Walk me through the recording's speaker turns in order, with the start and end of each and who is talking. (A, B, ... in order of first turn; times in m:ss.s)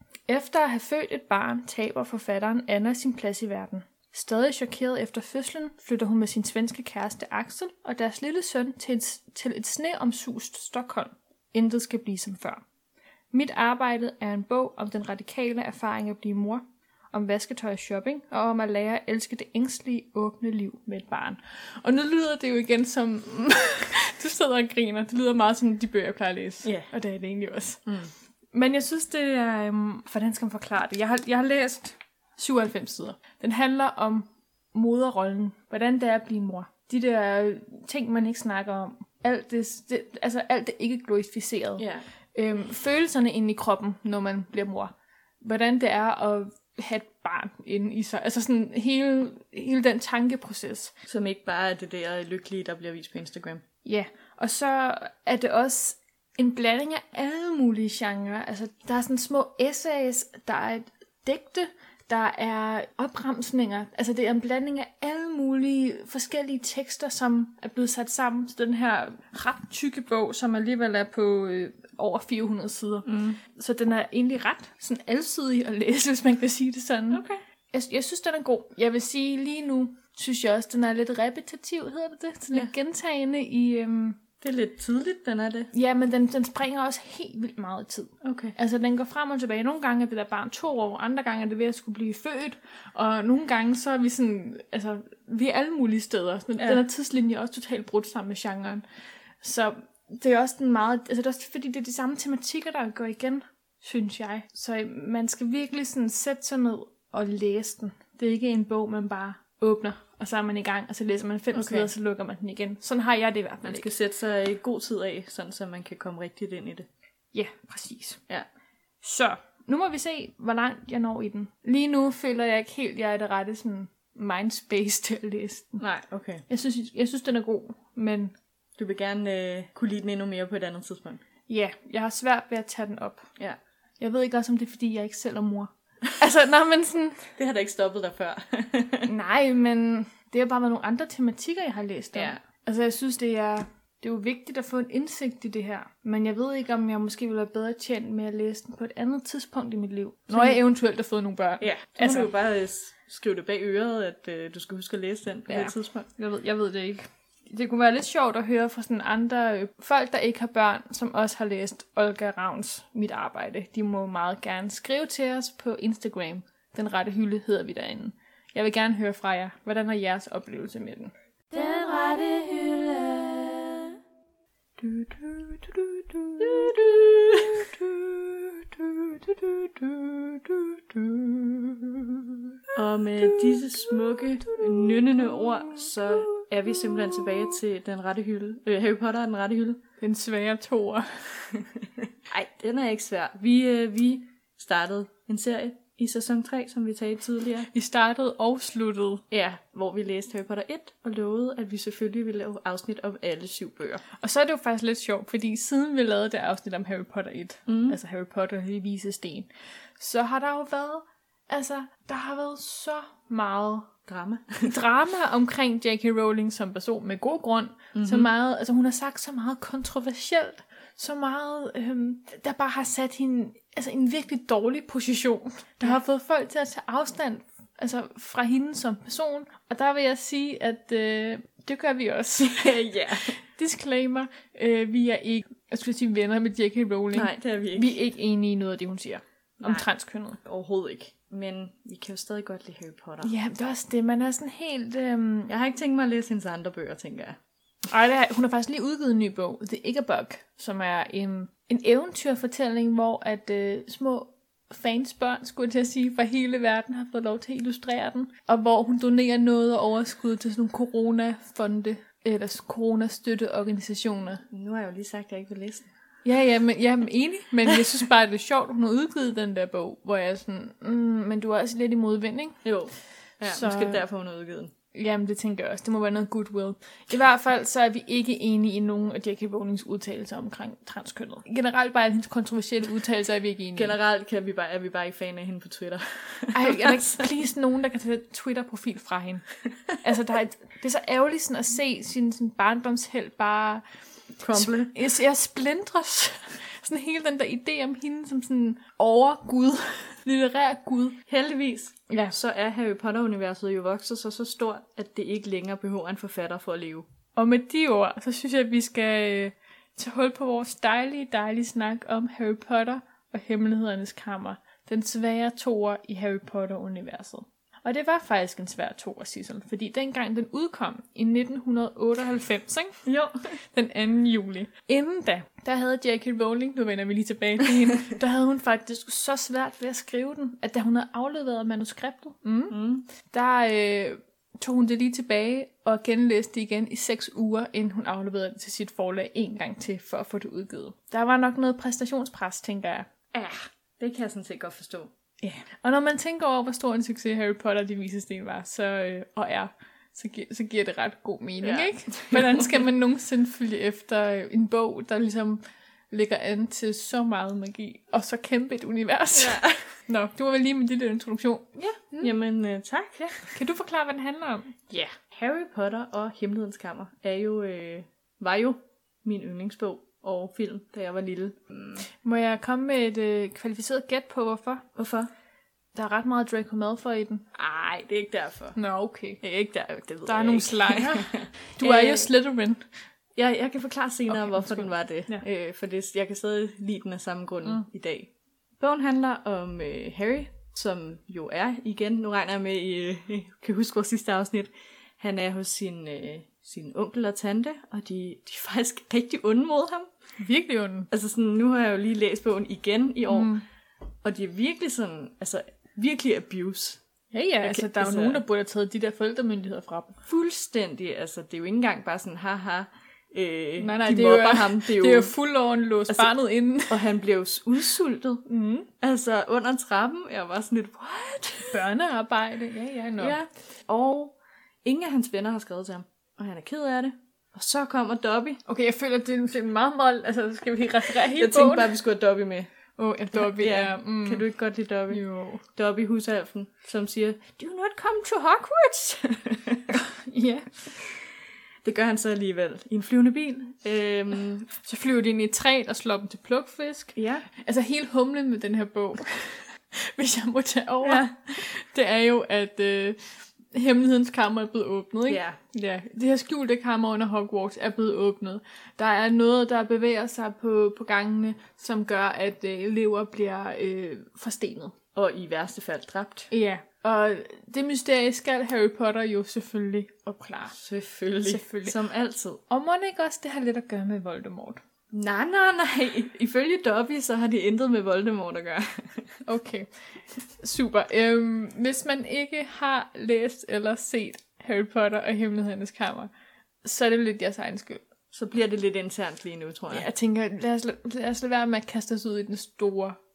0:00.3-0:12.6 A
0:13.3-0:27.9 A
0:26.6-0:26.9 B
0:28.5-0:50.9 A
0:41.8-0:42.1 B
0:51.1-0:53.6 B
0:53.8-1:24.2 A
1:13.1-1:13.4 B
1:17.1-1:17.4 B
1:24.4-1:25.7 B
1:25.7-1:38.8 A
1:28.2-1:28.6 B
1:39.4-1:53.9 A
1:51.5-1:51.9 B
1:53.6-1:56.9 B
1:57.3-1:58.2 A
1:59.0-2:05.8 A
2:05.8-2:06.4 B
2:06.5-2:08.3 A
2:08.8-2:11.2 B
2:11.5-2:13.2 A
2:14.0-2:17.3 A
2:17.4-2:19.1 B
2:19.0-2:32.3 A
2:22.1-2:22.4 B
2:30.3-2:30.6 B
2:31.6-2:36.1 B
2:35.5-2:51.1 A
2:51.5-2:53.9 C
2:54.8-2:58.1 B
2:58.6-2:59.9 B
3:00.5-3:01.0 B
3:01.1-3:01.9 A
3:02.7-3:09.8 B
3:03.5-3:06.4 A
3:10.0-3:11.3 A
3:12.3-3:17.7 B
3:17.7-3:19.2 A
3:19.3-3:24.0 B
3:24.2-3:33.9 A
3:27.7-3:28.0 B
3:34.1-3:34.8 B
3:34.6-4:00.4 A
3:38.0-3:38.3 B
3:52.4-3:53.4 B
3:57.1-3:58.0 B
4:00.4-4:03.3 B
4:03.2-4:05.5 A
4:05.5-4:07.4 B
4:07.9-4:24.4 A
4:24.5-4:25.9 B
4:26.2-4:32.6 A
4:32.6-4:34.7 B
4:33.4-4:34.0 A
4:34.9-4:44.0 A
4:43.8-4:47.3 B
4:46.5-4:49.5 A
4:50.0-4:53.8 A
4:54.4-4:55.0 B
4:54.5-5:01.2 A
5:01.3-5:07.1 B
5:02.1-5:02.4 A
5:07.4-5:23.0 A
5:23.0-5:23.6 B
5:23.6-5:43.1 A
5:32.7-5:33.1 B
5:43.3-5:45.1 B
5:45.4-6:02.3 A
5:51.6-5:52.7 B
5:59.3-5:59.8 B
6:02.2-6:03.5 B
6:03.4-6:04.9 A
6:04.9-6:12.0 B
6:12.1-6:14.9 A
6:15.0-6:15.3 B
6:16.0-6:17.4 A
6:17.6-6:18.8 B
6:18.8-6:19.4 A
6:19.4-6:22.3 B
6:20.2-6:22.9 A
6:23.4-6:40.1 B
6:24.3-6:25.4 A
6:40.4-6:41.1 A
6:41.1-6:43.5 B
6:43.3-6:43.6 A
6:44.2-6:47.0 B
6:47.3-6:50.2 A
6:47.6-6:48.4 B
6:50.3-6:55.3 B
6:53.8-6:57.1 A
6:56.9-6:58.4 B
6:58.5-6:58.9 A
6:59.0-7:01.8 B
7:01.7-7:03.4 A
7:03.2-7:08.6 B
7:08.7-7:12.0 A
7:11.3-7:12.7 B
7:13.0-7:14.5 A
7:13.3-7:20.0 B
7:15.1-7:15.6 A
7:19.9-7:21.0 A
7:21.8-7:24.7 B
7:24.8-7:44.9 A
7:27.2-7:27.5 B
7:31.0-7:31.4 B
7:35.3-7:35.6 B
7:45.2-7:46.5 B
7:46.5-7:50.8 A
7:50.8-7:52.6 B
7:51.4-7:52.0 A
7:52.7-7:54.8 A
7:55.1-7:59.4 B
7:59.4-8:06.3 A
8:06.8-8:08.0 A
8:08.3-8:10.1 B
8:09.9-8:13.2 A